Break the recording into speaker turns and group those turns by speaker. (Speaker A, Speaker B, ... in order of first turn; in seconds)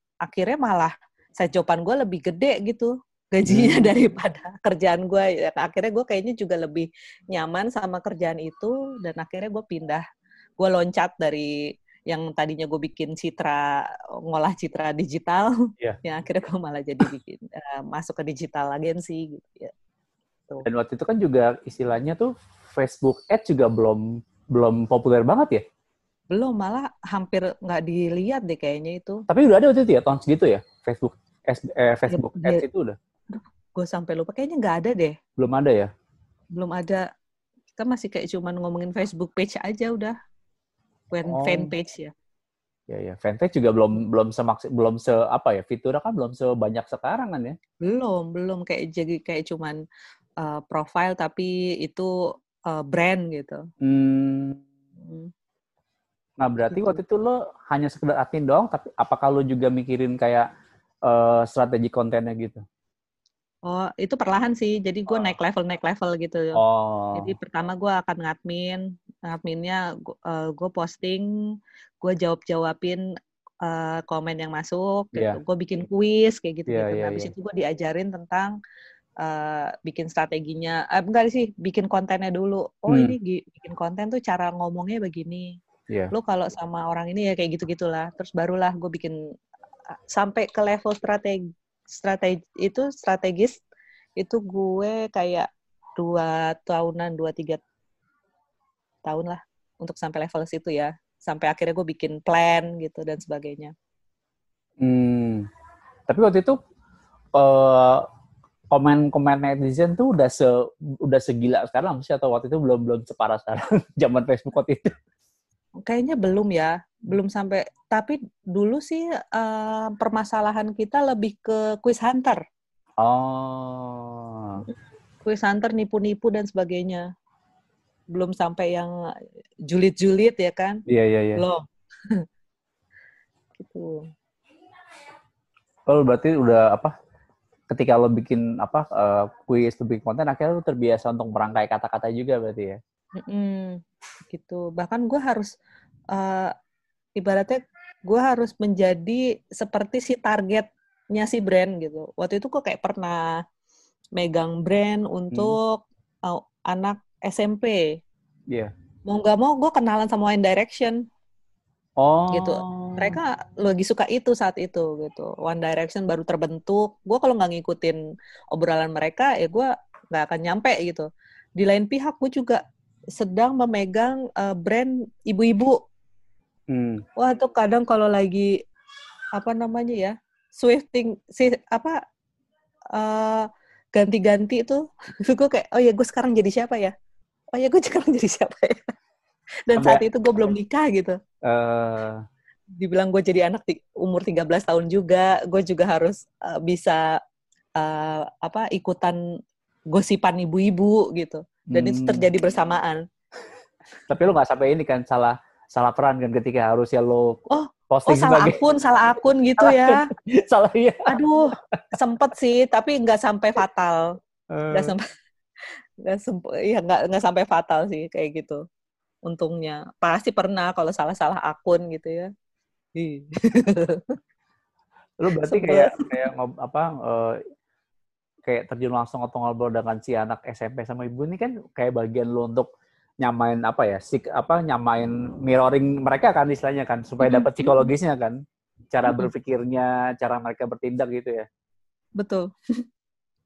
Speaker A: 0.2-10.0, 10.6-11.5, 12.1-15.5, 16.0-19.7, 26.3-29.2, 32.1-32.6, 33.3-35.1, 36.5-37.0, 37.8-40.1, 41.1-42.1, 47.9-49.8, 50.4-52.1, 52.7-53.6, 55.0-55.3, 56.7-57.0, 63.6-66.6, 67.1-71.2, 72.0-73.0, 73.6-78.5, 79.2-85.5, 86.1-89.2, 90.1-91.4, 91.9-93.6, 94.2-97.6, 99.0-103.7, 115.8-122.4, 125.2-127.0, 128.1-128.9, 129.7-130.8, 131.4-132.2, 133.6-134.0, 143.2-143.8, 144.3-145.5, 146.1-146.5, 147.2-153.3, 154.2-157.8, 159.1-161.0, 162.3-168.0, 168.5-172.6, 173.2-175.8, 177.2-178.5, 179.3-182.0, 182.9-186.9, 187.5-188.9, 189.7-191.2, 192.8-197.0, 197.8-199.2, 199.9-203.0, 207.5-210.1, 211.1-214.1, 214.7-215.1, 216.0-218.6, 219.2-222.3, 222.9-224.1, 225.4-226.1, 237.2-237.9, 242.2-242.4
Speaker B: 3.5-3.9, 20.6-25.6, 29.3-33.0, 35.4-35.9, 41.3-41.7, 42.9-47.6, 53.8-54.6, 56.4-60.5, 61.0-62.6, 66.5-67.3, 75.1-75.4, 76.7-77.3, 82.9-83.2, 104.8-105.5, 106.1-106.6, 107.3-108.0, 108.7-114.9, 123.0-124.6, 130.9-131.4, 135.9-136.9, 137.7-142.8, 155.3-155.6, 162.0-163.2, 176.7-177.0, 189.8-190.0, 191.4-192.2, 201.7-202.3, 204.1-207.4, 207.9-208.6, 209.6-211.1, 214.5-214.9, 225.2-227.4, 228.4-232.7, 233.2-238.4, 238.9-241.4